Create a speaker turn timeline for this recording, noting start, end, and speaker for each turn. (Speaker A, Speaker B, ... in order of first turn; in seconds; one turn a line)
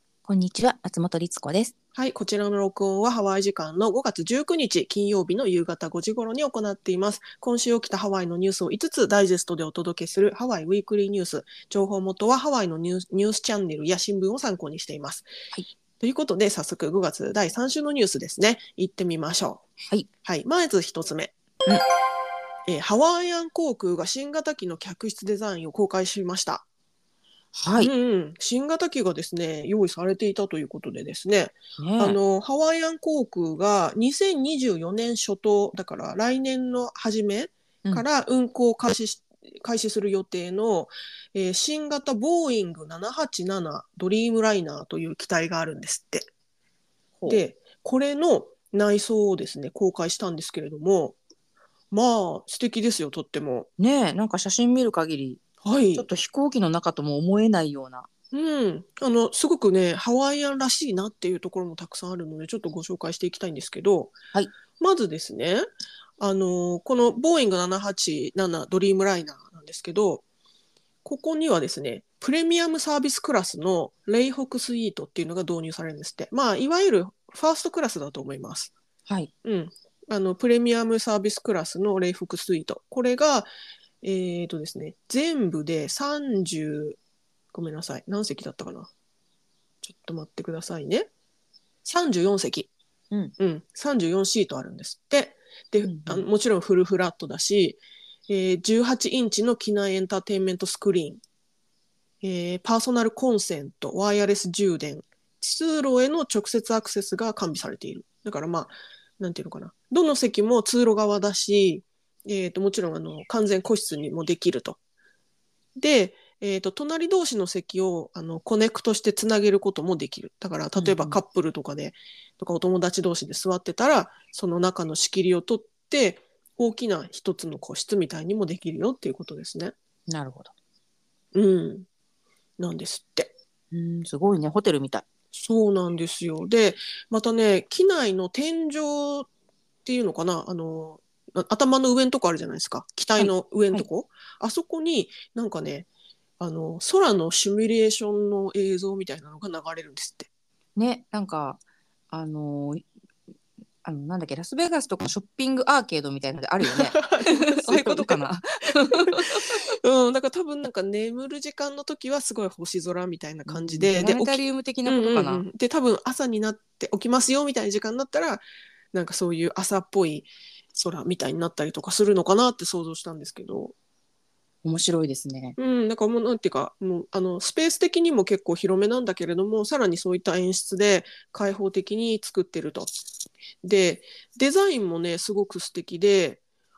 Speaker A: 0.2-1.7
Speaker B: 1.9-15.3
Speaker B: 16.0-19.6
Speaker B: 20.2-21.3
Speaker B: 22.7-26.6
Speaker A: 27.5-27.9
Speaker B: 27.8-46.3
Speaker A: 31.8-32.2
Speaker A: 47.1-47.4
Speaker B: 47.2-51.2
Speaker B: 51.9-53.7
Speaker A: 53.8-55.4
Speaker B: 55.6-56.1
Speaker A: 55.9-58.1
Speaker B: 58.3-64.2
Speaker B: 64.8-65.7
Speaker B: 66.2-70.2
Speaker B: 71.0-78.7
Speaker B: 79.4-83.5
Speaker B: 84.0-87.0
Speaker B: 87.5-88.9
Speaker B: 89.8-91.1
Speaker B: 91.8-92.7
Speaker B: 93.4-101.2
Speaker A: 95.8-96.2
Speaker B: 102.2-114.8
Speaker B: 115.8-129.7
Speaker A: 120.8-121.2
Speaker A: 130.1-130.5
Speaker B: 131.3-131.9
Speaker B: 132.6-133.3
Speaker A: 133.7-135.0
Speaker B: 135.3-139.3
Speaker B: 139.8-145.9
Speaker A: 143.2-143.8
Speaker B: 146.4-150.3
Speaker A: 150.8-152.8
Speaker A: 153.8-159.6
Speaker B: 156.6-158.2
Speaker B: 159.1-173.7
Speaker A: 163.5-165.4
Speaker A: 174.6-175.6
Speaker B: 175.6-182.9
Speaker B: 183.6-186.4